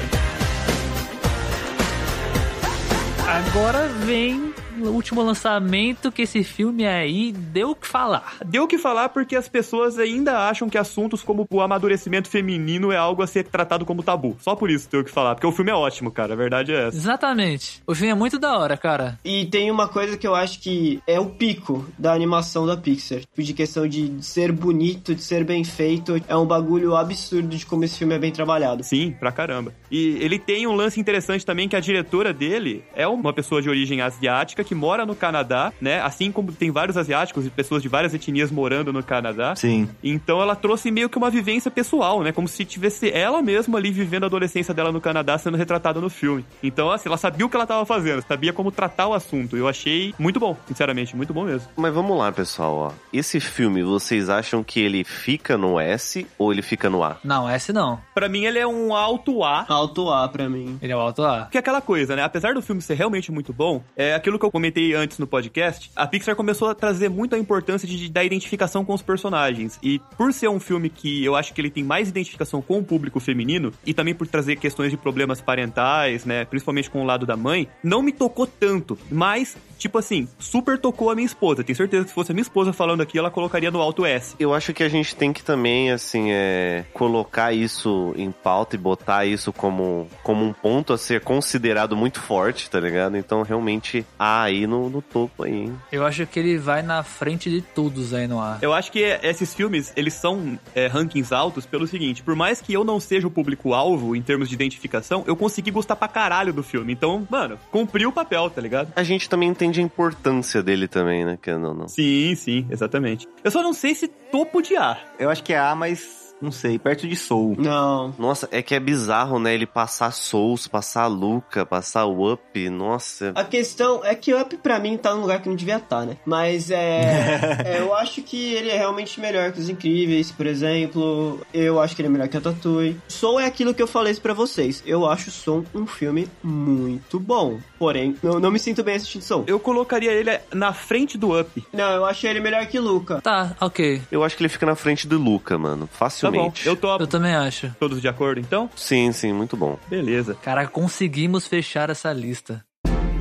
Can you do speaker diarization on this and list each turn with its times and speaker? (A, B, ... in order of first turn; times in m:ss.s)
0:03.3-0:08.4 A
0:08.4-0:17.0 B
0:16.9-0:19.2 A
0:19.2-0:28.9 C
0:28.8-0:51.7 B
0:39.6-0:39.9 D
0:51.8-0:57.2 E
0:57.2-0:58.0 A
0:58.2-0:59.7 B
0:59.7-1:00.8 C
1:00.8-1:01.5 A
1:01.5-1:24.4 B
1:24.4-1:35.8 E
1:35.9-1:38.6 A
1:38.6-1:48.9 B
1:49.0-1:51.9 E
1:51.9-1:55.0 B
1:55.2-1:57.6 D
1:57.6-1:58.2 C
1:58.2-2:03.4 E
2:03.4-2:19.5 C
2:07.0-2:07.7 D
2:19.5-2:21.7 B
2:21.7-2:23.2 C
2:23.2-2:24.1 A
2:24.1-2:26.8 E
2:26.2-2:27.2 B
2:27.0-2:27.8 A
2:27.8-2:28.7 B
2:28.8-2:29.8 E
2:29.9-2:30.4 B
2:30.4-2:32.6 A